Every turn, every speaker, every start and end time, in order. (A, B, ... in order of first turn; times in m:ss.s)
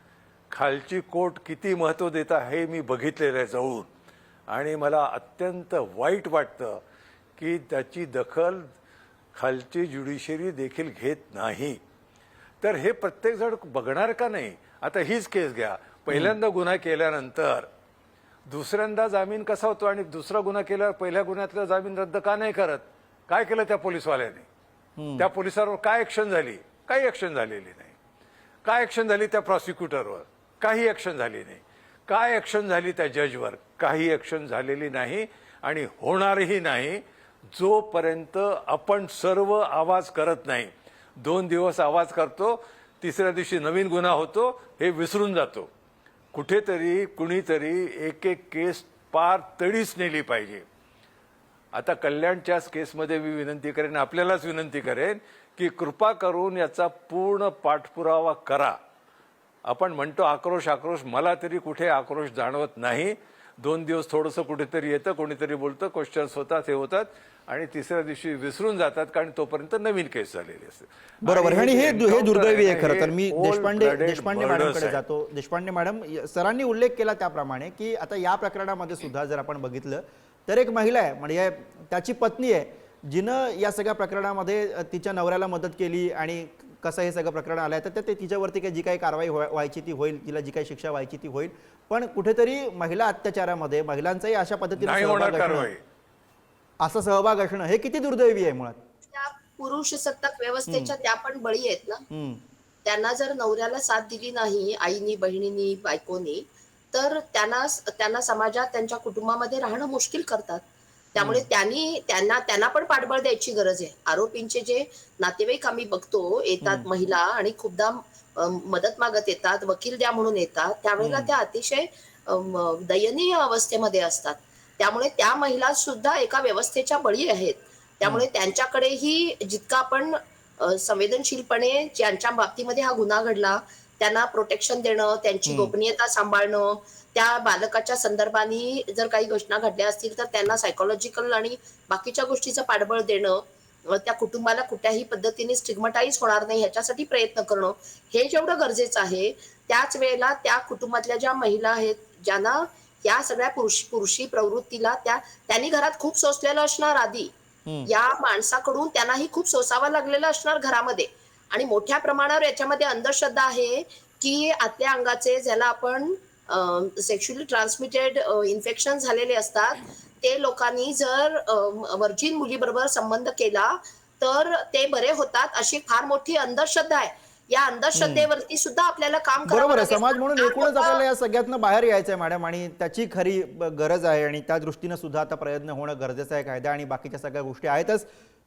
0:00.5-0:03.9 A
0:04.5-0:06.8 A
0:07.4-0:08.7 A
0:09.3-0:11.8 A
0:12.6-0:17.7 A
0:16.1-0:16.3 B
0:18.4-0:24.4 A
0:25.0-0:25.3 B
0:25.2-0:28.0 A
0:28.6-0:37.0 A
0:37.5-0:45.7 A
0:46.3-0:50.6 A
0:51.7-0:58.8 A
0:59.6-1:15.0 A
1:11.2-1:35.7 B
1:34.8-1:35.8 A
1:36.8-1:38.8 B
1:39.1-1:42.0 C
1:40.7-1:40.9 B
1:42.1-1:42.4 B
1:42.8-2:37.3 C
1:51.2-1:51.5 B
1:56.6-1:56.9 B
2:01.0-2:01.3 B
2:15.4-2:15.7 B
2:37.8-3:01.0 C
2:57.9-2:58.3 B
2:59.4-3:08.0 B